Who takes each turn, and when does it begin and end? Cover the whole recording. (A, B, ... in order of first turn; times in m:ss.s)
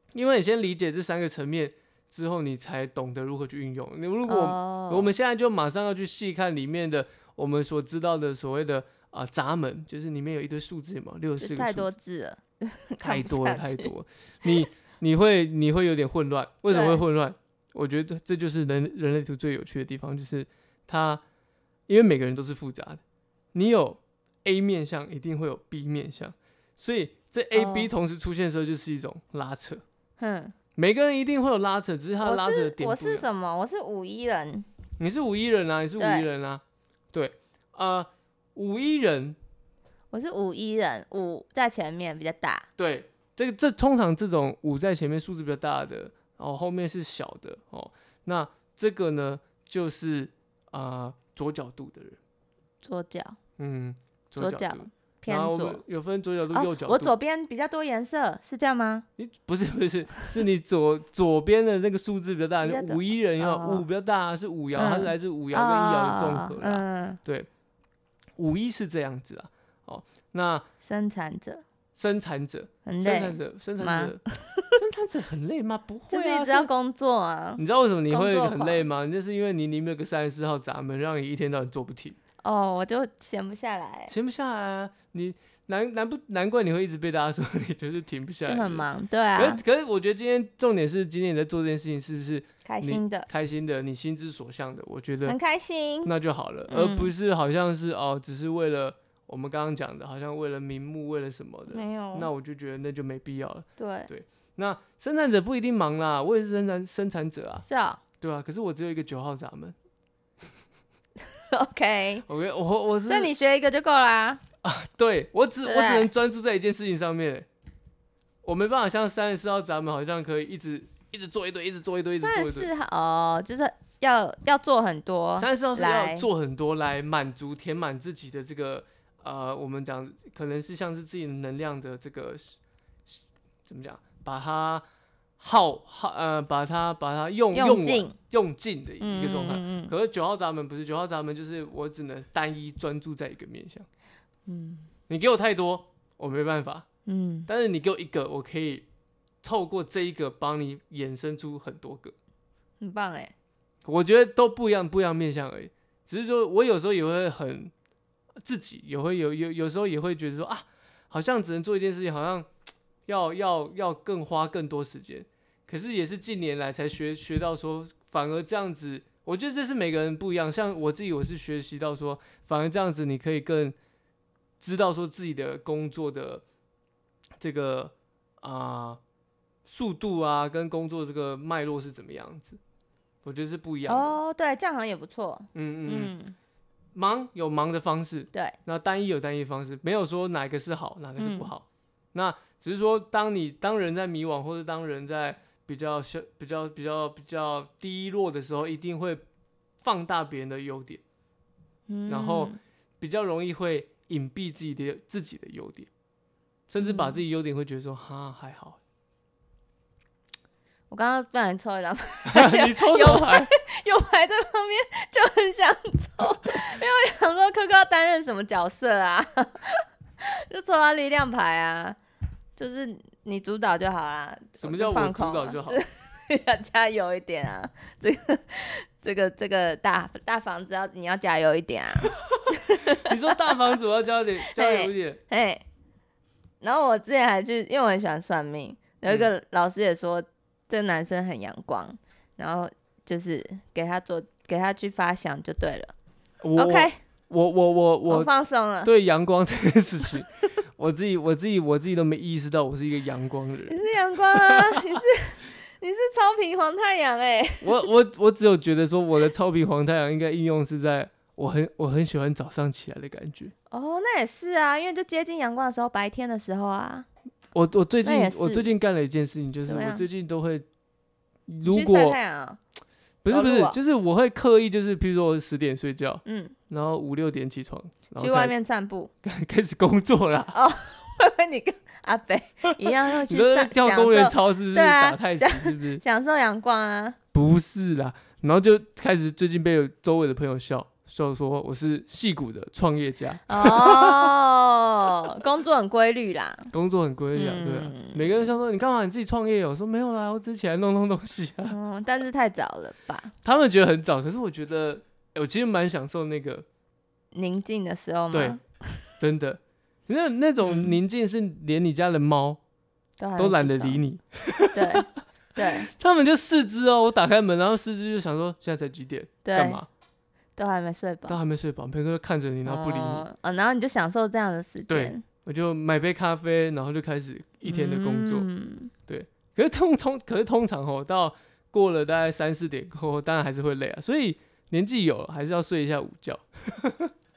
0:00.1-0:11.9 A
0:04.2-0:05.1 B
0:11.4-0:13.9 B
0:13.0-0:21.2 A
0:16.7-0:17.0 B
0:21.9-0:23.0 A
0:23.5-0:29.8 A
0:27.5-0:27.9 B
0:30.2-0:30.5 B
0:30.8-0:33.2 A
0:32.2-0:34.6 B
0:35.0-0:36.6 A
0:36.0-0:36.3 B
0:37.1-0:39.4 A
0:40.1-0:42.7 B
0:42.8-0:52.2 A
0:52.8-0:53.4 B
0:53.6-0:57.1 A
0:54.4-0:55.8 B
0:56.5-0:59.0 B
0:59.2-1:07.5 A
1:02.6-1:03.8 B
1:04.8-1:07.2 B
1:08.4-1:10.7 A
1:10.8-1:11.6 B
1:12.0-1:14.2 A
1:12.8-1:14.8 B
1:14.7-1:16.7 A
1:16.1-1:18.8 B
1:17.6-1:22.2 A
1:22.4-1:24.1 B
1:24.1-1:35.4 A
1:28.4-1:29.6 B
1:32.6-1:33.3 B
1:35.2-1:36.1 B
1:36.0-1:47.6 A
1:36.7-1:37.1 B
1:41.7-1:42.3 B
1:43.8-1:44.1 B
1:47.6-1:48.0 B
1:48.2-1:49.7 A
1:51.3-1:52.2 B
1:52.2-1:53.3 A
1:53.0-1:54.4 B
1:54.6-1:57.4 A
1:55.6-1:56.1 B
1:58.4-2:02.7 A
2:02.2-2:06.3 B
2:05.4-2:12.6 A
2:13.6-2:14.8 A
2:15.4-2:23.8 A
2:17.5-2:18.2 B
2:19.0-2:19.9 B
2:24.4-2:24.9 B
2:25.1-2:26.8 A
2:27.0-2:27.5 B
2:27.4-2:28.8 A
2:29.4-2:32.1 A
2:32.8-2:33.3 B
2:33.8-2:37.7 A
2:38.4-2:42.5 A
2:43.1-2:53.8 A
2:54.6-2:56.4 A
2:57.4-2:59.0 A
2:59.6-3:02.6 A
3:03.2-3:04.2 A
3:03.8-3:06.4 B
3:05.5-3:06.1 A
3:06.9-3:19.2 A
3:11.2-3:11.5 B
3:19.8-3:21.0 A
3:21.9-3:22.6 B
3:22.1-3:25.9 A
3:26.7-3:28.8 A
3:26.8-3:27.2 B
3:30.9-3:42.0 B
3:32.2-3:33.5 A
3:42.6-3:53.8 B
3:44.6-3:45.8 A
3:52.6-3:55.2 A
3:54.5-3:55.6 B
3:56.6-4:05.9 B
4:06.4-4:08.3 A
4:06.6-4:07.0 B
4:08.1-4:08.9 B
4:08.8-4:15.0 A
4:13.7-4:17.8 B
4:17.6-4:23.5 A
4:23.7-4:27.1 B
4:27.5-4:30.6 A
4:28.0-4:28.7 B
4:29.7-4:30.0 B
4:31.5-4:32.2 A
4:31.6-4:32.6 B
4:33.2-4:38.5 A
4:33.3-4:33.8 B
4:36.2-4:36.5 B
4:38.2-4:39.1 B
4:39.2-4:40.6 A
4:40.5-4:47.2 B
4:43.1-4:46.0 A
4:47.3-4:54.3 A
4:53.5-4:56.7 B
4:56.7-5:01.8 A
4:57.3-4:58.5 B
5:01.7-5:03.3 B
5:03.4-5:06.6 A
5:07.3-5:09.0 B
5:08.3-5:08.6 A
5:09.2-5:12.6 A
5:10.6-5:11.0 B
5:13.2-5:14.0 B
5:13.4-5:15.0 A
5:14.7-5:15.9 B
5:15.9-5:19.9 A
5:19.4-5:19.8 B
5:20.6-5:21.4 B
5:21.3-5:23.3 A
5:22.6-5:25.2 B
5:24.9-5:28.5 A
5:27.6-5:28.9 B
5:29.1-5:37.1 A